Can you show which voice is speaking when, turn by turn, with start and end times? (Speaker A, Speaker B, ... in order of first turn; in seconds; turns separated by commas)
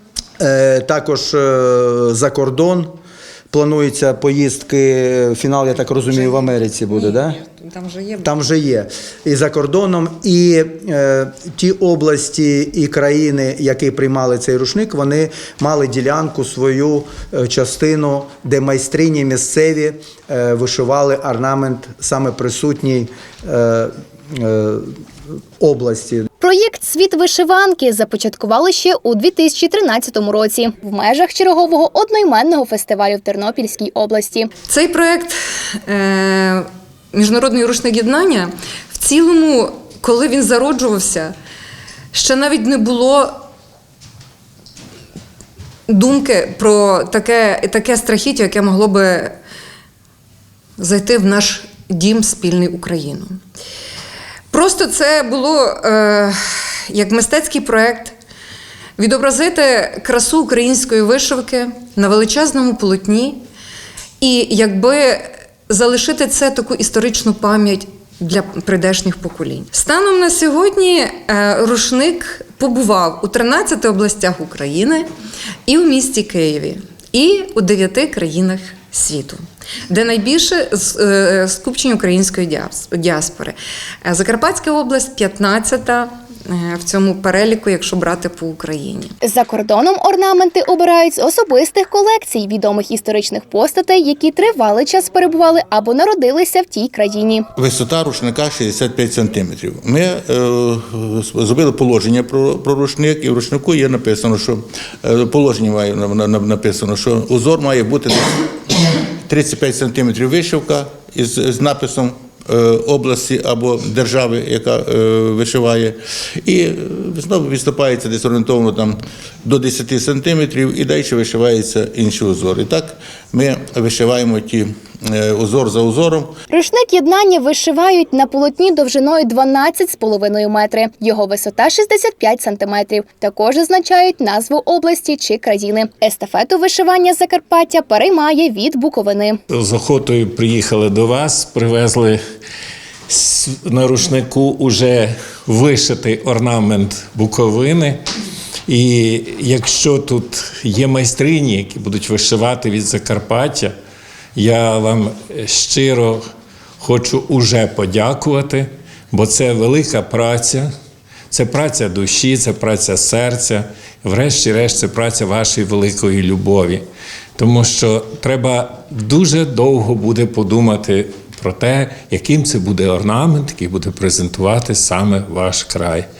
Speaker A: 0.4-2.9, Speaker A: 3.5-7.4, Speaker B: 6.1-8.3, Speaker A: 8.2-24.9, Speaker A: 25.6-26.3, Speaker C: 26.4-34.5, Speaker B: 34.7-41.3, Speaker B: 42.1-43.4, Speaker B: 45.9-49.4, Speaker B: 50.8-53.4, Speaker B: 54.5-58.2, Speaker B: 59.0-63.4, Speaker B: 64.2-75.1, Speaker B: 75.7-89.2, Speaker C: 89.2-97.5, Speaker D: 97.6-126.3, Speaker C: 126.5-139.4, Speaker E: 139.5-142.2, Speaker E: 143.1-148.0, Speaker E: 148.7-153.7, Speaker E: 154.3-156.2, Speaker E: 156.8-160.7, Speaker E: 161.3-166.8, Speaker E: 167.4-176.1